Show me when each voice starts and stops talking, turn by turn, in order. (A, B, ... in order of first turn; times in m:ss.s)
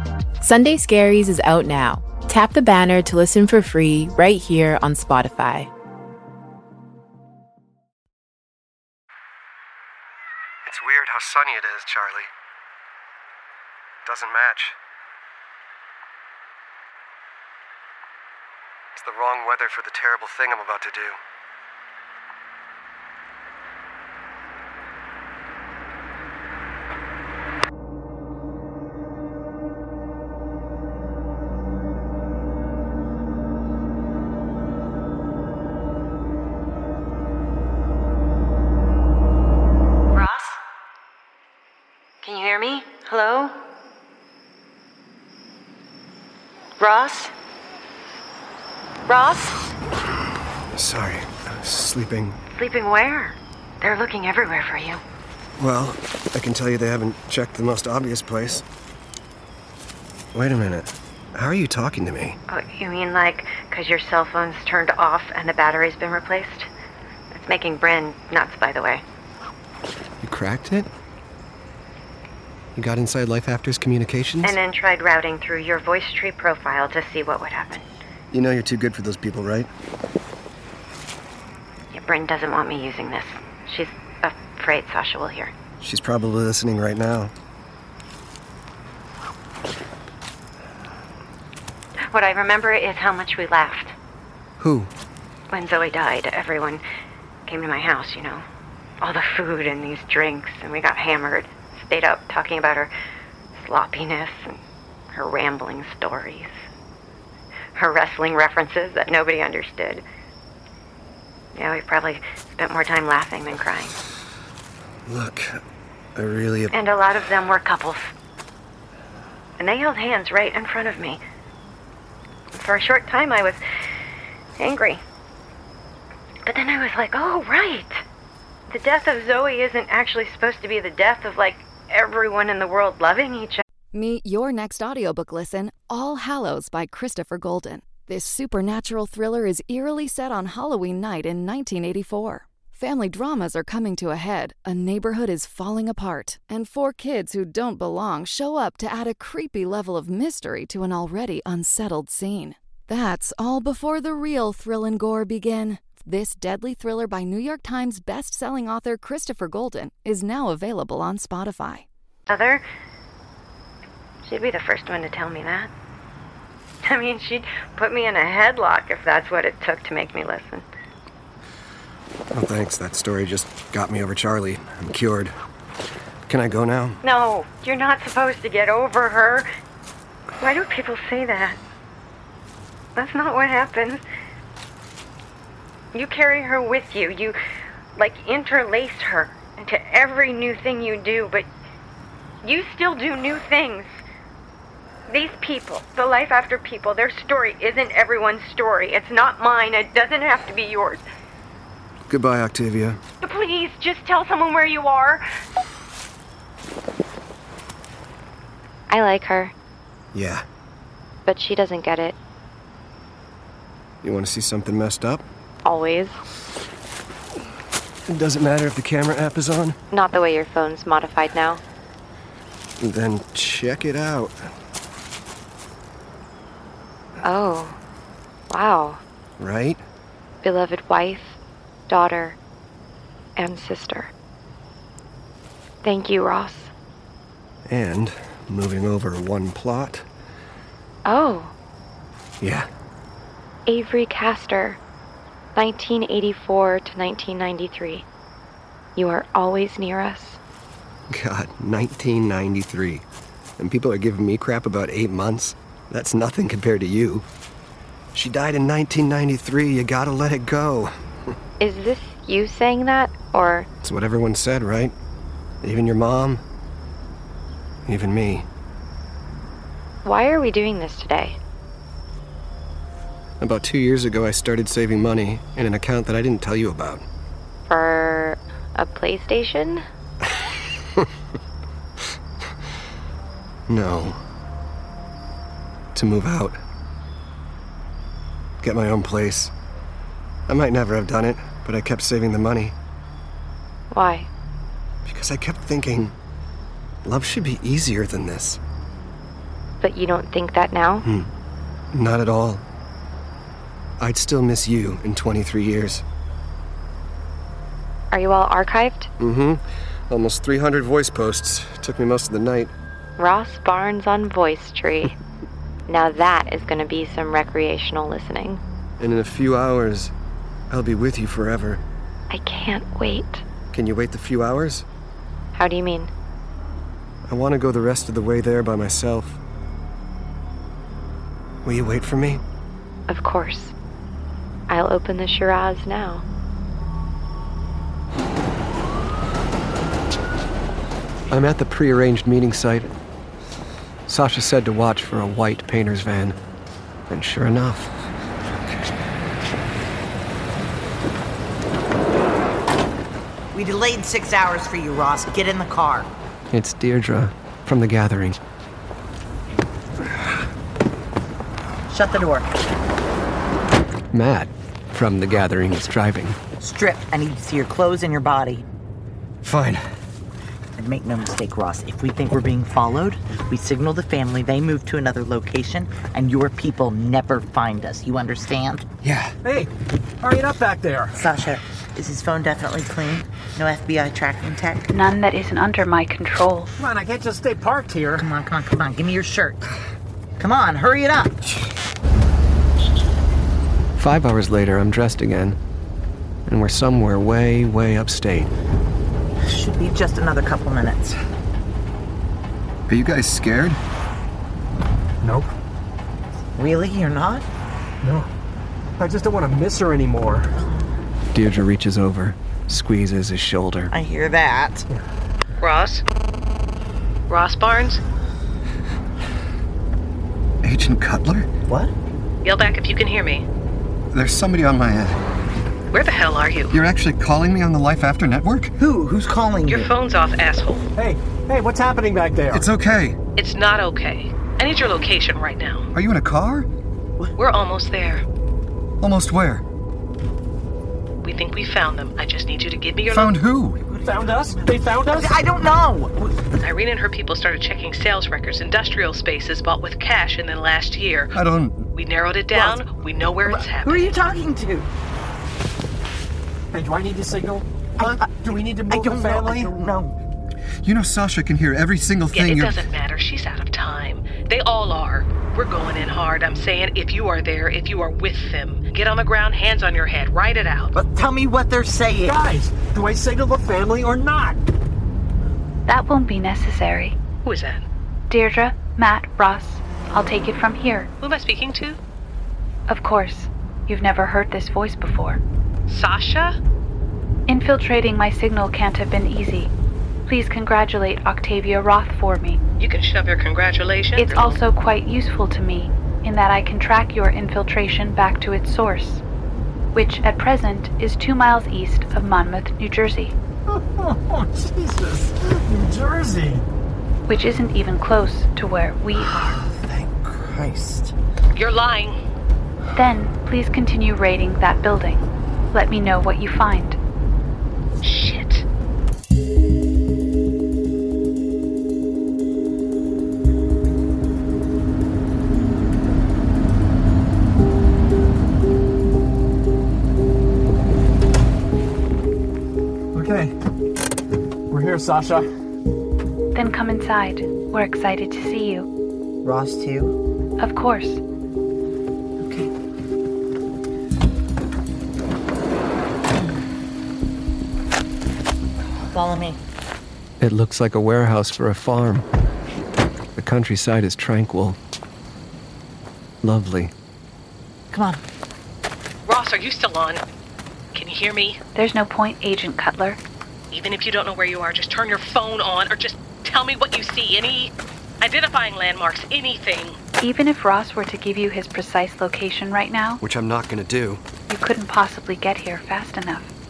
0:00.4-0:05.7 A
0:10.6-0:12.3 B
0:14.0-0:14.8 B
0:18.9-0:21.2 B
0:40.1-0:40.5 C
0:42.2-0:43.5 C
0:46.8-0:47.1 C
0:49.1-0:49.5 C
0:50.7-0:52.4 B
0:52.5-0:55.0 C
0:55.6-0:58.6 B
1:00.3-1:02.4 B
1:02.5-1:06.7 C
1:07.3-1:09.0 C
1:10.2-1:10.9 B
1:12.8-1:14.6 B
1:14.4-1:17.8 C
1:18.3-1:19.7 B
1:21.9-1:25.5 C
1:25.8-1:27.3 B
1:32.1-1:33.9 C
1:34.6-1:34.9 B
1:35.5-1:36.8 C
1:37.4-1:38.4 C
1:39.0-1:42.9 C
1:43.6-1:44.6 C
1:45.1-1:46.5 C
1:47.7-1:50.0 C
1:51.5-1:54.0 C
1:55.0-1:55.6 B
1:56.1-1:56.7 B
1:56.7-1:58.1 C
1:59.6-2:01.2 C
2:02.5-2:03.6 C
2:04.6-2:05.0 C
2:06.4-2:08.0 C
2:08.7-2:13.6 C
2:13.9-2:41.8 D
2:42.3-2:42.6 C
2:44.2-2:45.7 C
2:46.8-2:50.6 C
2:52.3-2:55.3 B
2:56.3-2:57.0 B
2:57.0-2:59.5 C
3:00.4-3:01.6 C
3:03.0-3:04.0 C
3:05.9-3:07.4 C
3:08.0-3:11.5 C
3:12.4-3:13.9 C
3:15.1-3:21.0 C
3:22.1-3:23.0 B
3:23.2-3:25.2 C
3:28.9-3:29.5 E
3:30.1-3:30.4 B
3:31.2-3:32.2 E
3:34.0-3:35.2 B
3:35.6-3:36.2 E
3:38.1-3:39.8 B
3:39.9-3:41.6 E
3:42.8-3:44.4 B
3:47.2-3:47.8 E
3:48.5-3:49.0 E
3:49.4-3:49.8 B
3:50.4-3:51.4 E
3:51.9-3:52.4 E
3:53.4-3:54.1 E
3:55.8-3:56.7 E
3:57.7-4:00.0 B
4:01.0-4:01.5 E
4:02.4-4:02.7 B
4:03.7-4:04.8 E
4:05.5-4:08.0 E
4:09.0-4:10.4 E
4:11.1-4:13.0 B
4:13.6-4:17.3 B
4:18.1-4:20.9 B
4:21.6-4:23.7 E
4:23.8-4:24.9 B
4:25.6-4:26.4 B
4:27.8-4:28.4 B
4:30.0-4:31.4 E
4:33.4-4:37.0 B
4:37.7-4:39.8 E
4:43.7-4:44.2 B
4:45.9-4:46.6 B
4:48.6-4:49.5 B
4:50.5-4:52.7 B
4:53.9-4:54.3 E
4:55.0-4:56.1 B
4:57.0-4:58.6 B
4:59.8-5:01.1 E
5:01.0-5:01.3 B
5:01.9-5:02.6 B
5:04.0-5:06.0 B
5:08.1-5:09.1 E
5:09.2-5:12.7 B
5:13.2-5:15.2 E
5:15.9-5:18.6 E
5:19.0-5:20.1 B
5:20.7-5:21.8 B
5:22.3-5:23.4 E
5:23.7-5:24.8 B
5:25.5-5:26.1 E
5:27.3-5:29.4 B
5:31.6-5:32.4 B
5:33.1-5:33.7 E
5:34.7-5:36.2 E
5:41.3-5:42.9 B
5:44.1-5:46.4 B
5:47.1-5:48.0 B
5:53.5-5:56.1 F
5:56.5-5:58.4 B
6:01.9-6:02.5 F
6:04.1-6:06.4 B
6:06.6-6:08.6 F
6:09.4-6:09.8 B
6:10.8-6:18.8 F
6:19.0-6:19.3 B
6:19.4-6:21.2 G
6:21.2-6:24.9 F
6:24.9-6:26.7 H
6:26.8-6:28.3 G
6:28.1-6:29.6 F
6:30.4-6:31.4 F
6:34.0-6:35.6 B
6:36.5-6:38.5 B
6:39.4-6:41.2 F
6:42.9-6:43.8 B
6:45.2-6:45.5 G
6:46.6-6:47.5 F
6:48.0-6:48.3 G
6:49.0-6:50.5 G
6:51.3-6:53.9 B
6:53.9-6:54.8 F
6:55.6-6:56.0 I
6:57.3-6:58.0 I
7:00.6-7:01.5 B
7:02.4-7:03.4 I
7:04.1-7:05.2 B
7:05.9-7:06.8 I
7:06.7-7:08.7 B
7:08.8-7:09.9 F
7:09.6-7:10.9 I
7:11.0-7:12.7 G
7:12.5-7:13.2 B
7:13.4-7:15.9 I
7:15.9-7:16.7 B
7:17.4-7:18.2 I
7:19.0-7:19.6 B
7:21.2-7:23.4 I
7:23.0-7:23.8 B
7:23.9-7:26.5 F
7:24.0-7:25.3 G
7:26.6-7:31.3 I
7:31.3-7:31.8 B
7:31.9-7:34.2 I
7:32.5-7:32.8 F
7:33.4-7:34.9 F
7:36.7-7:39.7 G
7:38.0-7:40.2 F
7:40.8-7:42.8 B
7:42.3-7:50.9 I
7:50.9-7:52.4 F
7:52.2-7:54.6 G
7:55.9-7:57.2 H
7:57.4-7:57.8 I
7:58.3-8:01.1 H
8:01.2-8:02.0 I
8:02.9-8:05.4 H
8:05.9-8:06.6 I
8:07.5-8:09.7 H
8:10.3-8:12.6 H
8:12.8-8:14.6 I
8:14.2-8:19.2 H
8:19.9-8:23.3 H
8:23.7-8:26.6 G
8:27.3-8:29.6 H
8:31.5-8:32.2 I
8:32.9-8:37.0 H
8:38.0-8:38.6 I
8:53.1-8:53.5 G
8:54.7-8:55.4 G
8:56.5-8:58.9 H
8:59.4-9:00.2 F
9:00.6-9:01.2 H
9:02.4-9:02.7 F
9:09.1-9:09.6 F
9:10.4-9:12.2 B
9:13.4-9:14.8 B
9:16.4-9:16.9 B
9:17.9-9:18.2 F
9:19.2-9:20.2 I
9:20.9-9:21.6 I
9:21.7-9:23.2 H
9:23.7-9:30.0 I
9:30.2-9:33.2 H
9:33.2-9:34.2 B
9:34.5-9:36.5 H